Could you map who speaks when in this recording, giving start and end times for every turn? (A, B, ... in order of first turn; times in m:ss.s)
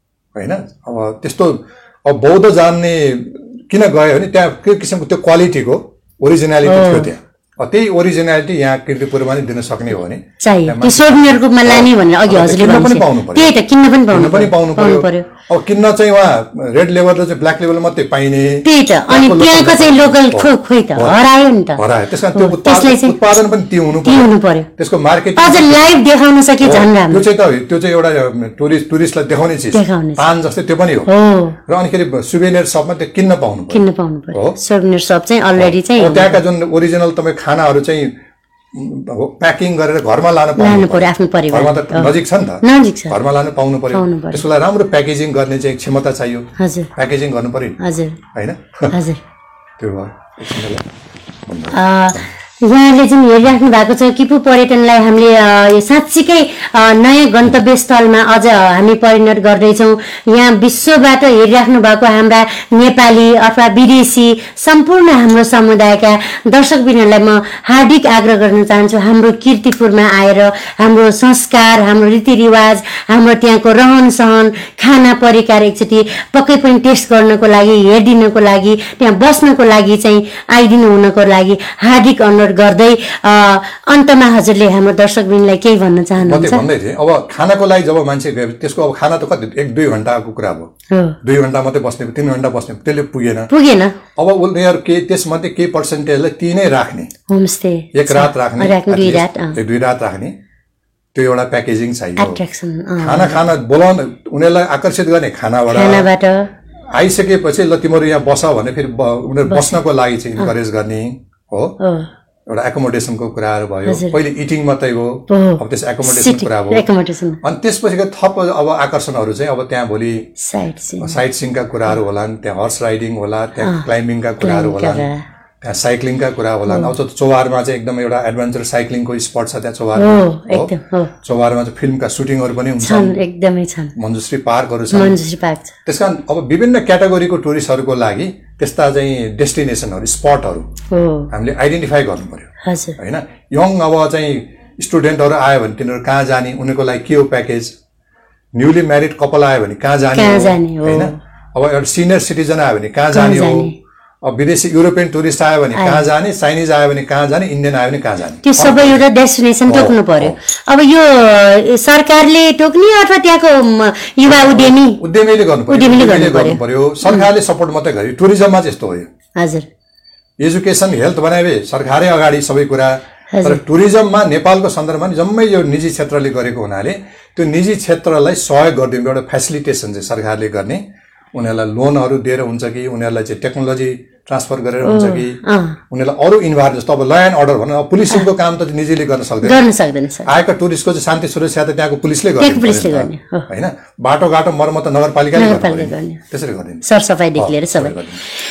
0:00.4-0:13.5 A
0:06.6-0:07.1 B
0:10.4-0:15.3 B
0:14.1-0:21.2 A
0:18.6-0:21.8 B
0:21.8-0:26.0 A
0:22.3-0:23.4 B
0:24.0-0:24.7 B
0:25.4-0:27.3 B
0:26.6-0:31.1 A
0:29.7-0:30.3 B
0:31.1-0:31.6 B
0:31.7-0:34.6 A
0:33.7-0:36.4 B
0:35.6-0:38.1 A
0:38.7-0:47.8 A
0:40.6-0:43.2 B
0:43.9-0:44.4 B
0:46.6-0:46.9 B
0:47.8-0:48.2 B
0:48.3-0:49.0 A
0:48.9-0:49.2 B
0:49.8-0:50.8 A
0:51.5-0:52.3 A
0:51.7-1:26.7 B
1:26.2-1:30.7 A
1:30.9-1:31.2 B
1:31.2-1:33.5 A
1:33.5-1:34.0 B
1:34.2-1:37.1 A
1:37.3-1:39.6 B
1:37.9-1:40.4 A
1:41.1-1:42.4 A
1:42.2-1:43.4 B
1:43.0-1:46.1 A
1:45.7-1:46.5 B
1:46.9-1:51.8 A
1:49.5-1:49.8 B
1:51.8-1:52.1 B
1:52.5-1:56.9 A
1:53.9-1:54.2 B
1:55.3-1:57.4 B
1:57.4-2:00.3 A
2:00.4-2:01.2 B
2:01.0-2:05.1 A
2:03.6-2:03.9 B
2:04.4-2:05.2 B
2:05.6-2:13.2 A
2:06.7-2:06.9 B
2:10.0-2:11.1 B
2:12.8-2:14.0 B
2:14.0-2:15.2 A
2:14.9-2:15.8 B
2:15.9-2:20.7 A
2:20.9-2:21.3 B
2:21.3-2:27.7 A
2:22.6-2:23.0 B
2:28.6-2:33.7 A
2:30.1-2:31.2 B
2:33.1-2:33.8 B
2:34.2-2:39.0 A
2:35.7-2:36.1 B
2:38.4-2:45.0 B
2:39.7-2:40.4 A
2:44.3-2:49.1 A
2:45.7-2:47.3 B
2:49.4-2:49.7 B
2:50.4-3:05.4 A
2:53.3-2:53.6 B
3:04.8-3:05.8 B
3:05.9-3:09.6 A
3:09.4-3:10.3 B
3:10.3-3:16.8 A
3:12.4-3:13.5 B
3:15.4-3:16.2 B
3:16.8-3:18.0 B
3:17.4-3:18.2 A